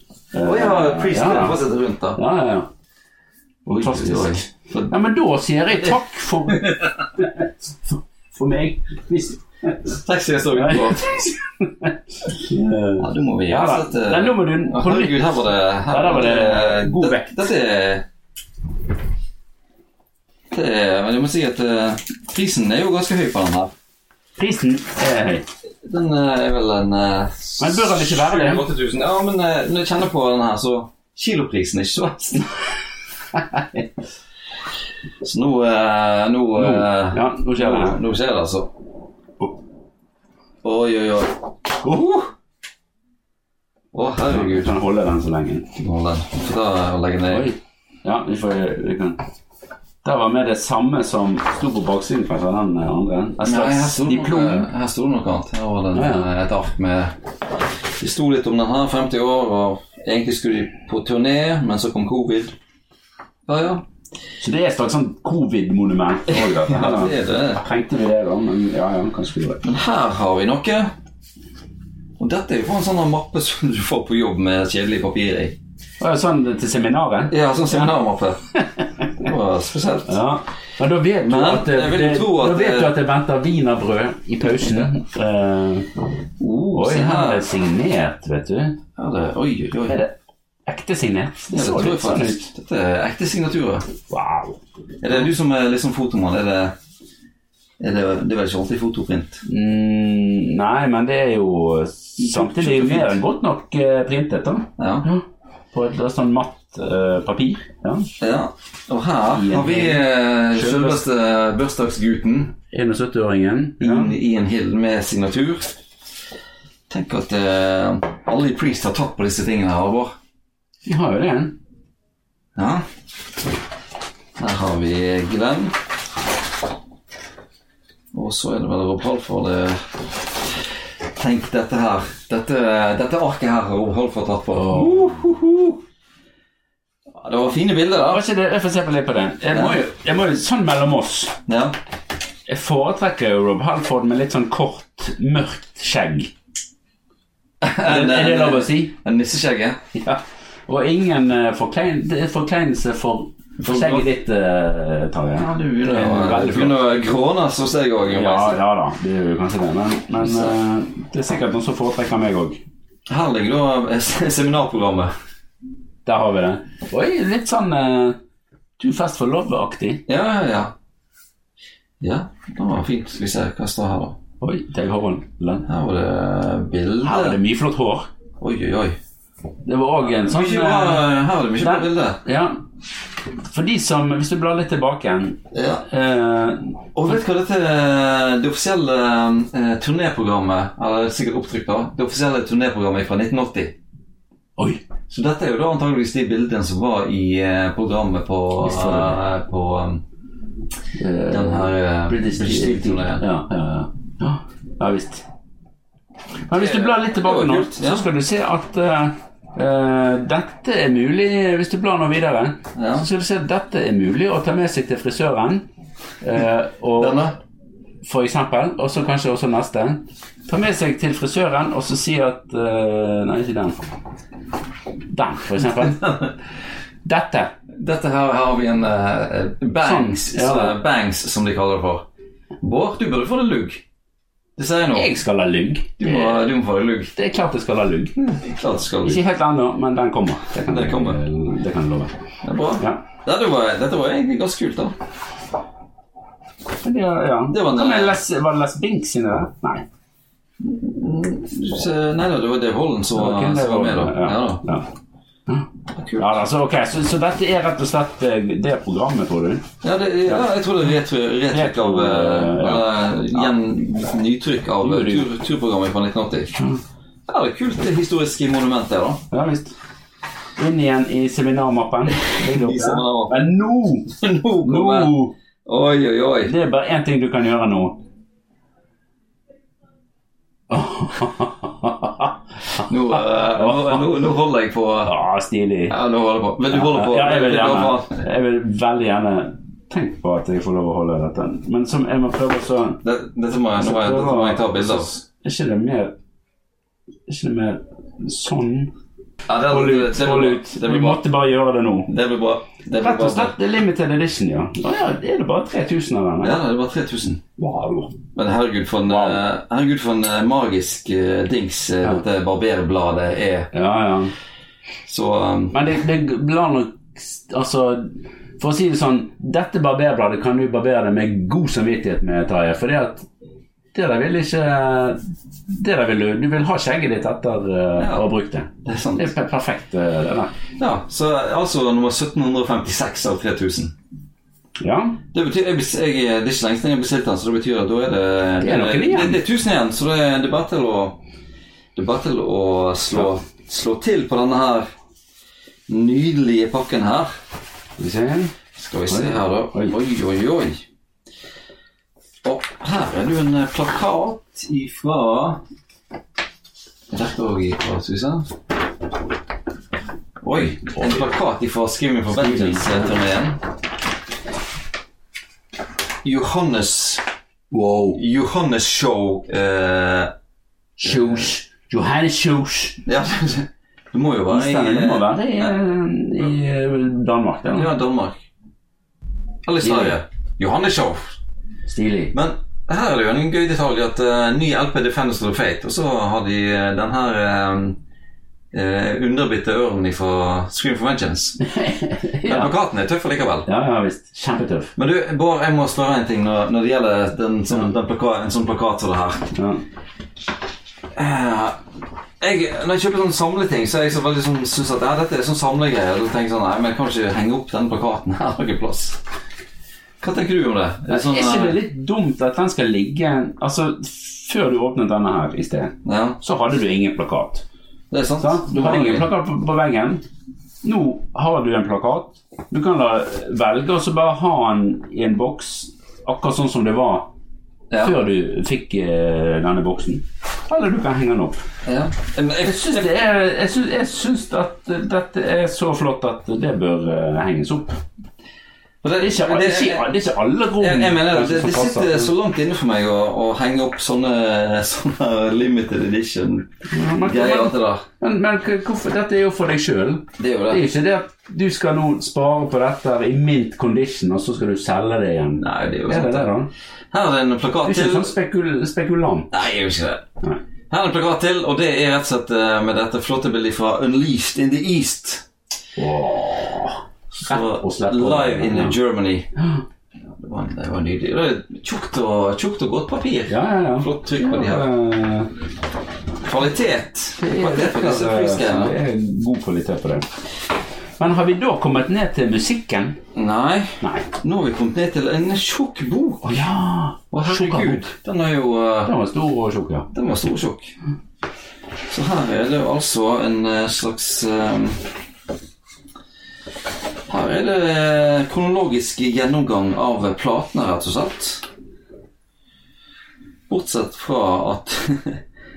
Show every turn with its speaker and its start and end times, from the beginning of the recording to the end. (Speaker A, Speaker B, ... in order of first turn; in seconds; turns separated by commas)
Speaker A: 0.3-1.6, Speaker B: 0.4-2.2, Speaker A: 2.2-2.7, Speaker B: 3.7-4.9, Speaker A: 3.7-9.9, Speaker B: 10.0-11.3, Speaker A: 10.5-15.3, Speaker B: 13.0-18.0, Speaker A: 15.9-17.4, Speaker B: 20.5-23.7, Speaker A: 24.4-25.4, Speaker B: 25.8-32.5, Speaker A: 27.6-28.6, Speaker A: 33.3-33.8, Speaker B: 35.2-38.7, Speaker A: 36.5-38.0, Speaker B: 40.6-42.2, Speaker B: 43.9-44.7, Speaker A: 44.3-45.7, Speaker B: 45.8-47.5, Speaker A: 47.3-49.2, Speaker A: 50.0-54.7, Speaker B: 53.4-57.1, Speaker A: 55.9-56.3, Speaker B: 58.0-62.5, Speaker B: 63.5-63.8, Speaker A: 64.4-69.6, Speaker B: 66.3-67.6, Speaker B: 69.6-70.9, Speaker B: 72.2-75.5, Speaker A: 76.0-77.9, Speaker B: 77.3-78.4, Speaker A: 78.5-79.3, Speaker B: 79.2-80.2, Speaker A: 80.1-85.9, Speaker B: 81.2-82.9, Speaker B: 86.4-87.5, Speaker A: 86.7-88.8, Speaker B: 89.0-90.0, Speaker A: 89.9-90.1, Speaker A: 90.7-92.5, Speaker B: 91.5-93.9, Speaker A: 94.1-94.6, Speaker B: 95.0-96.7, Speaker B: 97.8-99.4, Speaker A: 99.5-108.1, Speaker B: 102.2-103.2, Speaker B: 104.8-105.1, Speaker B: 108.2-112.5, Speaker A: 109.3-111.0, Speaker A: 112.7-114.1, Speaker B: 113.8-115.8, Speaker B: 116.9-120.1, Speaker A: 120.8-121.6, Speaker B: 122.5-122.8, Speaker B: 124.4-125.7, Speaker B: 128.1-129.9, Speaker B: 131.2-135.8, Speaker A: 134.5-135.2, Speaker B: 137.2-138.2, Speaker A: 138.1-141.4, Speaker B: 139.5-139.8, Speaker B: 141.5-141.7, Speaker A: 142.5-146.3, Speaker B: 147.6-149.8, Speaker A: 147.8-148.9, Speaker A: 149.9-156.8, Speaker B: 153.6-154.1, Speaker B: 155.3-158.6, Speaker A: 158.1-162.6, Speaker B: 160.2-160.5, Speaker B: 163.1-165.1, Speaker A: 166.0-168.2, Speaker A: 168.8-170.0, Speaker B: 170.1-170.7, Speaker B: 172.0-174.2, Speaker A: 174.4-175.6, Speaker B: 175.6-177.4, Speaker A: 177.0-178.1, Speaker B: 178.4-179.0, Speaker A: 179.6-181.1, Speaker B: 180.1-182.2, Speaker A: 181.6-182.6, Speaker A: 183.5-186.7, Speaker B: 185.5-185.8, Speaker B: 186.9-193.7, Speaker A: 194.6-194.8, Speaker B: 195.1-200.0, Speaker A: 198.6-199.2, Speaker A: 200.9-205.2, Speaker B: 201.3-203.2, Speaker A: 206.5-215.7, Speaker B: 206.5-208.1, Speaker B: 212.8-213.1, Speaker A: 216.2-217.2, Speaker B: 217.0-217.3, Speaker A: 218.0-223.8, Speaker A: 225.1-226.1, Speaker B: 225.8-226.3, Speaker A: 227.0-227.5, Speaker B: 227.7-232.1, Speaker A: 229.8-230.8, Speaker B: 232.6-233.8, Speaker B: 234.6-235.1, Speaker A: 234.9-236.4, Speaker B: 236.0-237.1, Speaker A: 237.1-238.2, Speaker B: 238.2-239.2, Speaker A: 239.0-242.1, Speaker B: 240.7-241.2, Speaker B: 242.4-244.9, Speaker A: 246.8-249.8, Speaker B: 247.5-248.2, Speaker B: 250.6-254.6, Speaker A: 253.1-254.9, Speaker B: 255.9-256.4, Speaker A: 256.2-259.6, Speaker B: 259.8-266.6, Speaker A: 261.5-263.5, Speaker A: 264.8-265.3, Speaker B: 267.3-269.2, Speaker A: 269.3-269.7, Speaker A: 270.6-274.1, Speaker B: 272.1-273.4, Speaker B: 274.1-275.1, Speaker A: 274.6-275.3, Speaker B: 275.6-276.5, Speaker A: 276.5-278.0, Speaker A: 280.7-284.0, Speaker B: 282.8-285.1, Speaker A: 285.1-285.9, Speaker B: 285.9-288.2, Speaker A: 286.7-293.0, Speaker B: 293.0-295.1, Speaker A: 293.8-296.1, Speaker A: 297.3-298.9, Speaker B: 299.5-301.2, Speaker A: 299.7-302.1, Speaker B: 302.1-303.5, Speaker A: 303.0-306.6, Speaker B: 306.4-307.4, Speaker A: 307.6-308.1, Speaker B: 308.3-313.7, Speaker A: 309.1-309.4, Speaker A: 313.7-314.3, Speaker B: 315.1-315.8, Speaker A: 315.7-323.3, Speaker A: 323.9-330.5, Speaker B: 328.0-328.2, Speaker B: 328.8-329.3, Speaker B: 330.8-333.9, Speaker A: 334.8-335.2, Speaker B: 335.3-341.2, Speaker A: 338.6-339.4, Speaker B: 341.9-344.9, Speaker B: 345.9-347.3, Speaker A: 348.0-348.5, Speaker B: 348.8-350.8, Speaker A: 349.1-349.9, Speaker B: 352.4-355.6, Speaker B: 357.1-358.5, Speaker B: 360.4-363.6, Speaker A: 360.9-361.2, Speaker A: 362.3-363.1, Speaker B: 366.2-367.2, Speaker A: 367.7-368.2, Speaker B: 368.1-370.3, Speaker A: 371.0-373.0, Speaker B: 373.1-375.7, Speaker A: 374.5-377.9, Speaker B: 377.7-378.4, Speaker B: 379.6-381.4, Speaker A: 379.8-380.1, Speaker A: 381.9-382.3, Speaker B: 382.3-388.0, Speaker B: 388.7-391.6, Speaker A: 391.6-392.7, Speaker B: 392.4-393.7, Speaker A: 393.7-394.9, Speaker B: 394.9-399.5, Speaker A: 399.5-399.8, Speaker B: 401.1-401.8, Speaker B: 402.4-409.2, Speaker B: 410.2-411.8, Speaker A: 411.1-417.6, Speaker B: 416.0-416.4, Speaker B: 418.1-419.3, Speaker A: 418.4-420.2, Speaker A: 420.8-427.3, Speaker B: 427.9-428.1, Speaker A: 428.0-431.6, Speaker B: 431.8-433.1, Speaker A: 432.6-438.0, Speaker B: 439.0-440.1, Speaker A: 439.2-442.3, Speaker B: 440.8-448.1, Speaker A: 446.9-456.7, Speaker B: 450.4-450.8, Speaker B: 455.6-456.5, Speaker B: 457.1-458.3, Speaker A: 457.8-459.5, Speaker B: 459.5-460.3, Speaker B: 460.9-465.4, Speaker A: 466.0-469.0, Speaker B: 467.3-469.5, Speaker A: 469.6-469.8, Speaker B: 470.3-474.9, Speaker A: 473.5-475.5, Speaker B: 476.4-478.9, Speaker A: 477.4-480.3, Speaker A: 481.2-483.2, Speaker B: 483.3-486.7, Speaker A: 484.0-484.3, Speaker A: 486.4-488.1, Speaker B: 487.3-489.1, Speaker A: 489.1-490.1, Speaker B: 490.1-490.9, Speaker B: 492.1-495.0, Speaker B: 497.3-501.6, Speaker B: 503.7-505.4